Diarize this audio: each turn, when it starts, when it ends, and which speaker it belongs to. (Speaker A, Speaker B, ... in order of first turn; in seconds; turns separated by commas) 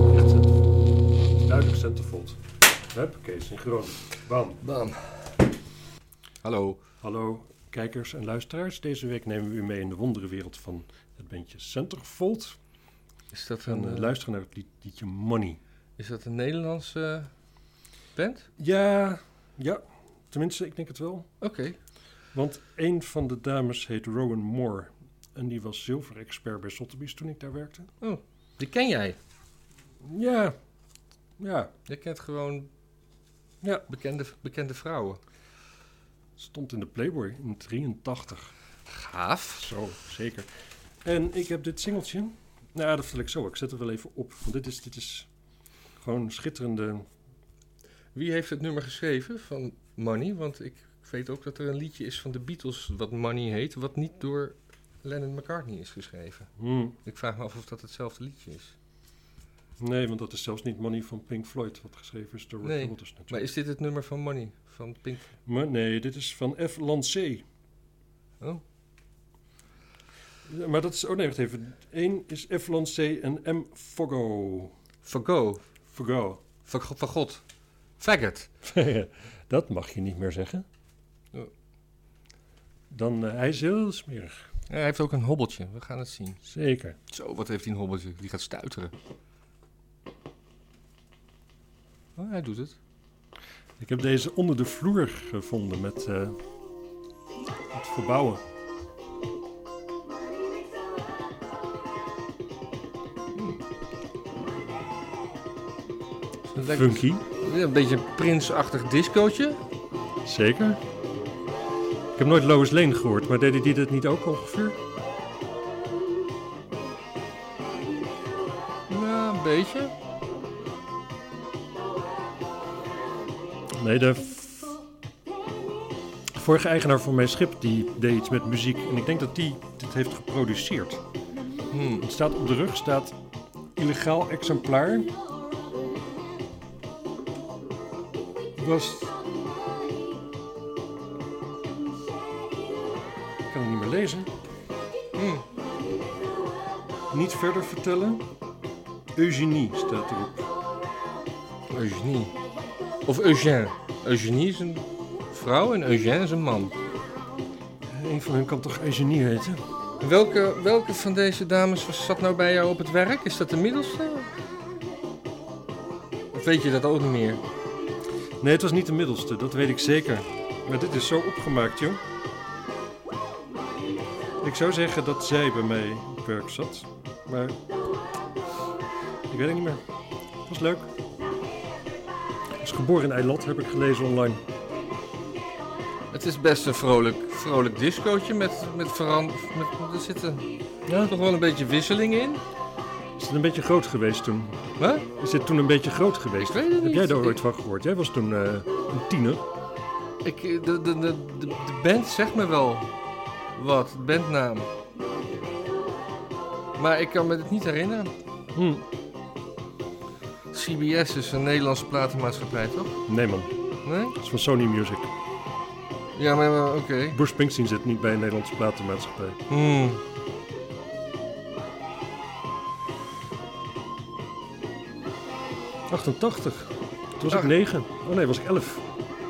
Speaker A: 0.1-0.6, Speaker A: 1.4-2.4, Speaker A: 2.9-4.6, Speaker B: 4.6-5.3, Speaker B: 6.4-6.8, Speaker A: 7.0-12.6, Speaker B: 13.3-14.2, Speaker A: 13.7-15.6, Speaker B: 16.0-17.3, Speaker B: 18.2-18.5, Speaker A: 18.6-21.3, Speaker B: 21.4-21.8, Speaker A: 22.3-27.9, Speaker B: 28.0-29.2, Speaker A: 30.0-30.5, Speaker A: 31.4-31.7, Speaker B: 31.9-32.7, Speaker B: 33.9-35.2, Speaker A: 36.4-38.5, Speaker B: 38.9-39.7, Speaker A: 39.6-40.5, Speaker A: 41.0-45.3, Speaker A: 46.0-47.1, Speaker B: 48.1-56.5, Speaker A: 56.6-57.0, Speaker B: 57.0-58.8, Speaker A: 59.8-63.5, Speaker B: 62.6-65.3, Speaker A: 65.5-67.4, Speaker A: 70.5-74.7, Speaker B: 75.0-75.6, Speaker A: 75.9-76.4, Speaker B: 76.7-77.4, Speaker B: 78.0-78.5, Speaker A: 78.6-80.7, Speaker A: 82.9-84.5, Speaker B: 84.7-86.4, Speaker A: 86.5-87.0, Speaker B: 87.1-88.9, Speaker B: 92.2-92.8, Speaker A: 93.8-96.4, Speaker A: 97.7-98.4, Speaker B: 106.5-109.6, Speaker A: 106.6-107.2, Speaker A: 110.2-110.8, Speaker A: 112.2-114.8, Speaker B: 118.9-119.9, Speaker A: 123.7-124.8, Speaker A: 126.3-131.0, Speaker B: 131.7-132.1, Speaker A: 132.0-133.2, Speaker A: 133.8-135.1, Speaker A: 138.6-139.2, Speaker A: 143.5-144.3, Speaker B: 145.1-145.4, Speaker A: 147.1-148.2, Speaker A: 149.2-150.5, Speaker B: 151.7-152.4, Speaker B: 153.1-156.8, Speaker A: 157.9-159.6, Speaker B: 160.0-164.3, Speaker B: 166.3-167.4, Speaker A: 168.4-172.0, Speaker A: 174.4-177.6, Speaker A: 179.3-179.8, Speaker A: 180.5-180.9, Speaker A: 182.6-184.4, Speaker B: 186.1-190.5, Speaker A: 190.9-191.1, Speaker B: 191.0-192.4, Speaker A: 193.2-194.6, Speaker B: 194.8-195.1, Speaker A: 195.2-199.4, Speaker B: 196.4-197.4, Speaker B: 200.2-202.9, Speaker B: 203.6-204.7, Speaker B: 206.8-208.1, Speaker A: 208.6-208.8, Speaker B: 210.5-213.0, Speaker A: 213.1-213.5, Speaker B: 213.8-214.2, Speaker A: 214.2-215.1, Speaker B: 216.2-217.2, Speaker A: 217.1-219.4, Speaker B: 219.5-220.0, Speaker A: 225.9-228.8